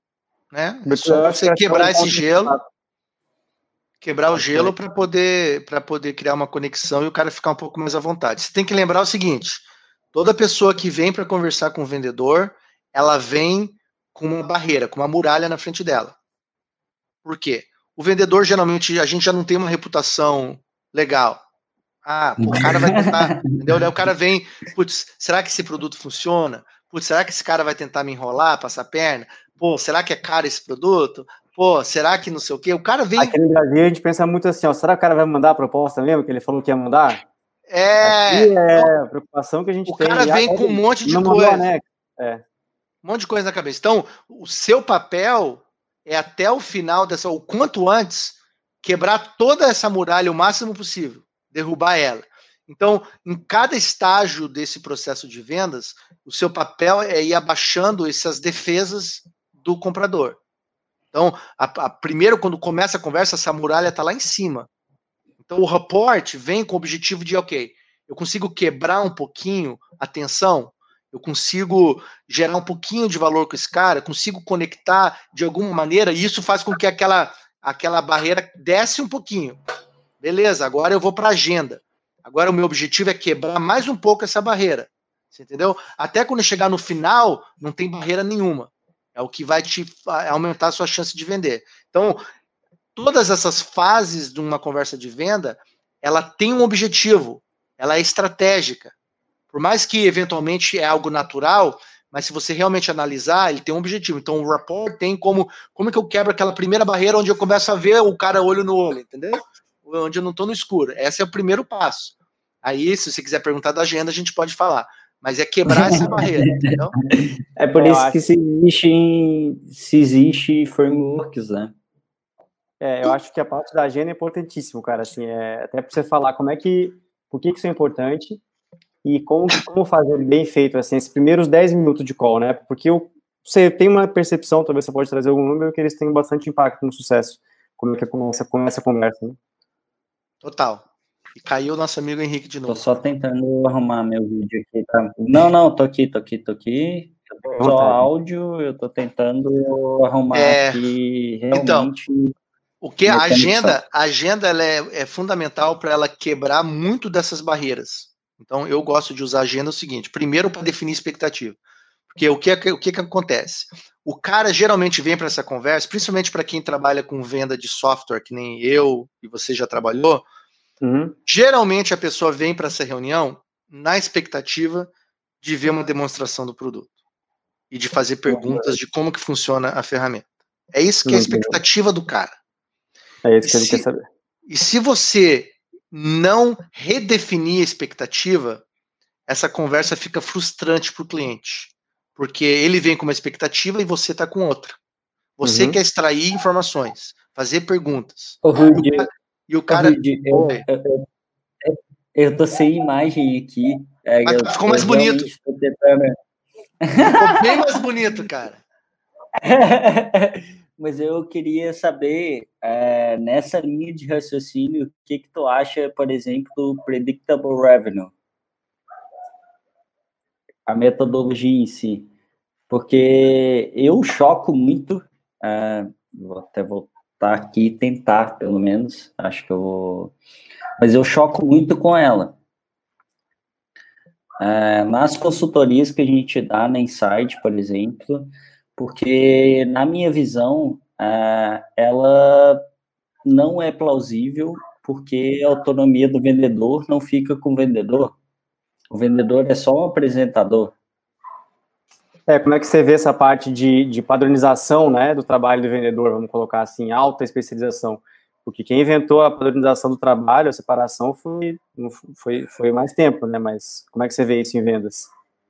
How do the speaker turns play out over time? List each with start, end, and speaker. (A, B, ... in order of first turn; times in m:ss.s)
0:00.5-0:02.5 A
0:00.8-0:02.6 B
0:04.0-0:16.2 A
0:04.3-0:04.7 B
0:17.2-0:21.4 A
0:22.0-0:33.3 A
0:22.4-0:23.8 C
0:33.2-0:37.2 B
0:37.7-0:38.9 A
0:38.0-0:42.4 B
0:39.9-0:41.6 A
0:43.0-1:00.4 A
1:01.1-1:04.7 A
1:05.4-1:19.6 A
1:20.2-1:32.2 A
1:33.0-1:38.9 A
1:39.5-1:56.9 A
1:55.7-2:01.7 C
1:57.7-1:58.2 B
2:02.8-2:08.4 B
2:09.0-2:19.4 B
2:20.4-2:20.8 A
2:21.4-2:22.8 A
2:22.7-2:32.3 C
2:27.4-2:28.1 B
2:30.3-2:30.8 A
2:31.5-2:31.9 A
2:32.8-2:41.6 A
2:33.0-2:33.8 C
2:42.1-2:50.2 A
2:50.8-2:51.1 B
2:51.2-2:56.9 A
2:57.7-3:02.3 A
2:58.3-2:58.7 B
3:01.0-3:01.6 B
3:03.2-3:04.0 B
3:03.4-3:03.8 A
3:04.5-3:08.6 A
3:09.3-3:14.8 A
3:15.4-3:20.6 A
3:15.4-3:15.8 B
3:18.4-3:19.1 C
3:19.7-3:21.0 C
3:21.6-3:26.2 C
3:24.2-3:25.3 A
3:26.8-3:27.5 C
3:27.0-3:28.6 A
3:29.4-3:38.1 C
3:40.7-3:42.1 C
3:42.7-3:50.1 C
3:50.8-3:52.4 C
3:54.4-4:02.6 C
4:03.2-4:08.2 C
4:08.9-4:10.7 C
4:12.3-4:25.1 B